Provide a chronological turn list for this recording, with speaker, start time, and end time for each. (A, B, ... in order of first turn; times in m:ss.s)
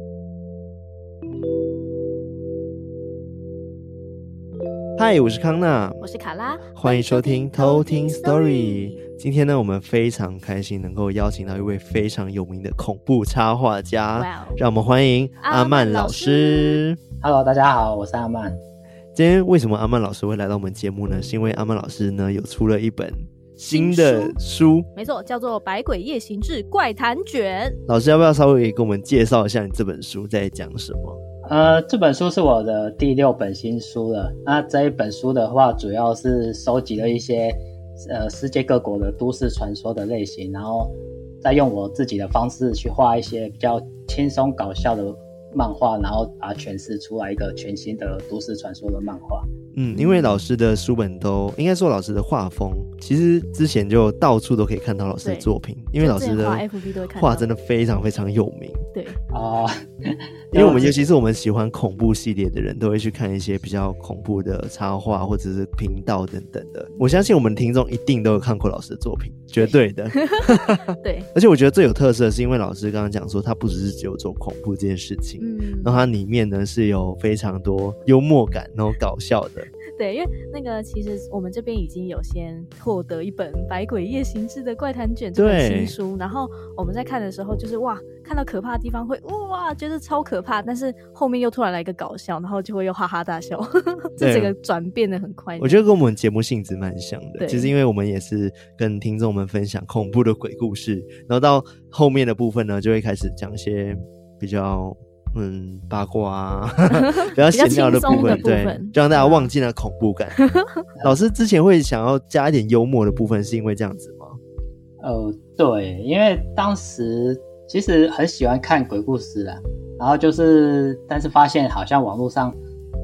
0:05.0-0:06.0 A
0:06.0-0:09.0 B
0:06.8-0:17.0 A
0:14.2-0:14.6 B
0:15.4-0:16.8 B
0:17.2-0:18.6 C
0:19.1-0:24.9 A
0:23.7-0:24.4 B
0:25.0-0:27.8 B
0:27.9-0:31.2 A
0:31.5-0:49.4 C
0:49.7-0:58.8 A
0:49.9-0:50.4 B
0:56.0-0:57.5 B
0:58.9-0:59.2 B
0:59.3-1:00.9 C
1:00.5-1:19.7 A
1:10.2-1:10.4 B
1:11.0-1:11.3 B
1:15.4-1:16.1 B
1:20.0-1:35.8 B
1:25.4-1:26.0 A
1:34.2-1:34.5 A
1:35.6-1:50.4 A
1:37.4-1:37.7 B
1:47.0-1:49.5 B
1:50.4-1:50.7 B
1:51.0-1:54.4 A
1:55.0-2:02.6 C